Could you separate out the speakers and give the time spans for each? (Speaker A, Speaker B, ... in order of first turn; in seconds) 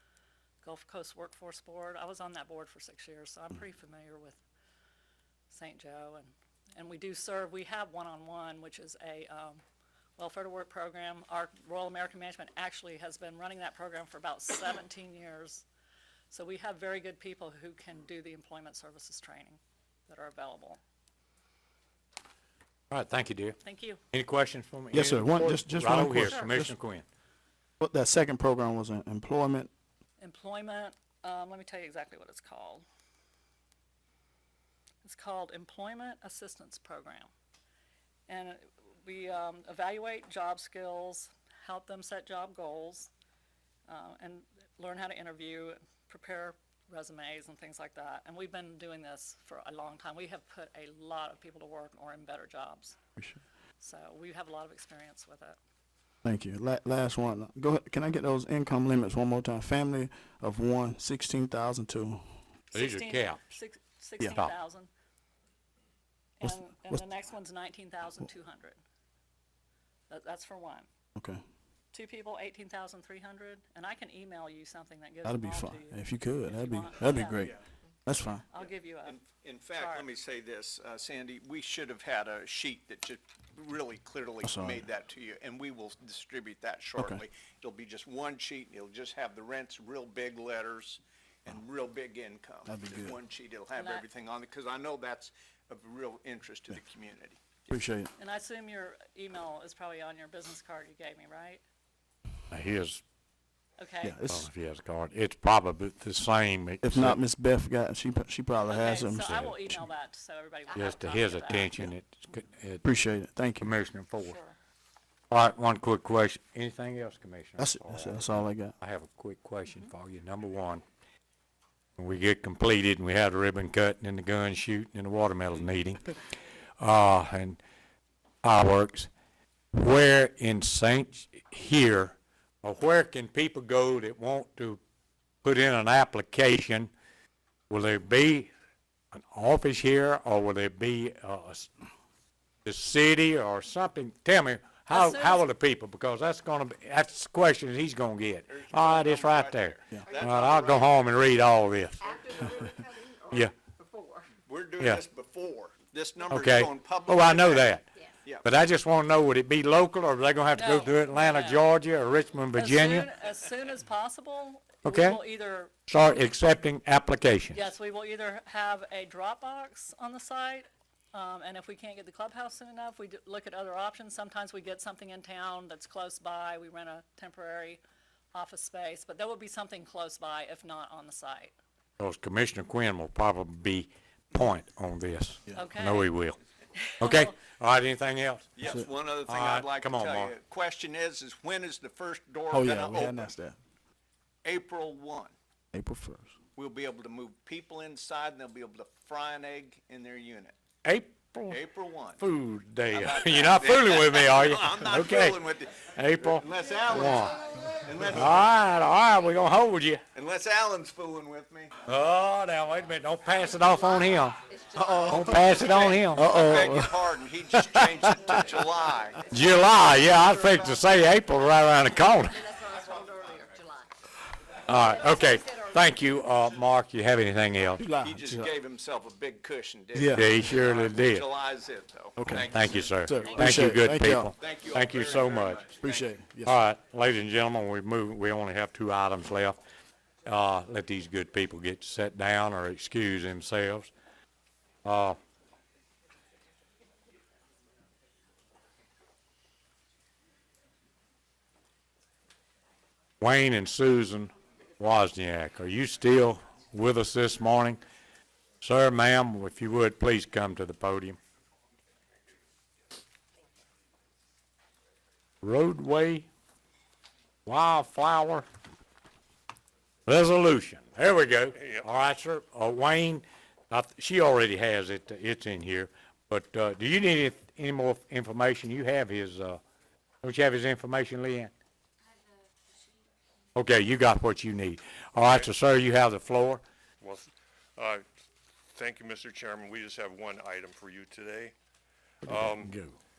Speaker A: 0.6-4.4, 5.5-9.6, 10.2-15.7, 16.3-20.8, 23.6-24.0, 30.2-32.9, 35.0-37.3, 38.3-43.1, 43.9-53.0, 53.8-55.6, 62.7-64.9, 66.4-68.8, 70.1-70.9, 71.9-77.5, 78.5-79.2, 79.8-80.1, 93.8-94.1, 98.2-101.6, 103.8-104.2, 108.7-111.8, 114.2-114.6, 119.7-119.9, 144.9-145.4, 160.6-161.7, 162.6-165.7, 167.5-177.8, 178.3-181.5, 185.5-186.1, 186.8-187.4, 233.2-233.5
Speaker B: 22.9-23.6, 24.1-27.1, 62.7-63.4, 102.5-103.0, 104.3-107.2, 109.2-109.6, 110.7-112.9, 113.6-114.4, 115.3-120.8, 122.0-126.0, 126.8-127.6, 128.4-129.1, 129.7-134.8, 135.4-136.9, 137.7-138.5, 139.1-141.7, 142.7-152.2, 153.3-153.6, 156.3-157.9, 158.4-163.1, 164.8-165.2, 165.9-167.7, 182.0-186.4, 187.0-188.6, 189.2-190.4, 200.8-201.6, 202.2-207.4, 208.1-210.0, 211.8-214.4, 215.1-216.8, 217.5-218.4, 219.3-222.4, 224.7-227.8, 230.1-231.3, 232.4-235.6, 236.4-239.6, 240.2-243.9, 244.8-245.2, 253.2-257.8, 258.6-261.2, 265.4-266.3, 267.5-268.5, 270.1-279.6, 280.2-281.5, 283.6-286.6
Speaker C: 24.9-26.8, 27.8-29.7, 56.2-62.4, 66.4-67.0, 71.2-71.4, 75.2-78.5, 84.4-84.8, 87.0-87.2, 92.7-93.2, 97.7-98.1, 104.0-104.5, 106.8-109.3, 112.8-113.7, 117.6-118.8, 188.6-188.9, 192.5-193.6, 195.7-196.4, 216.1-217.0, 227.8-228.5, 229.9-230.3, 232.2-234.3, 235.8-236.6, 292.2-292.9
Speaker D: 78.6-97.7, 148.5-151.1, 154.4-157.7, 188.6-193.3, 194.4-195.3, 196.6-200.6, 201.5-202.2, 202.9-208.6, 210.1-211.8, 214.7-220.9, 228.0-233.4, 234.4-236.1
Speaker E: 152.0-154.3, 206.9-207.6, 213.8-215.9, 222.3-223.9, 225.1-225.8
Speaker F: 271.6-271.9, 285.3-285.5, 287.0-288.0, 288.8-291.5, 292.3-292.8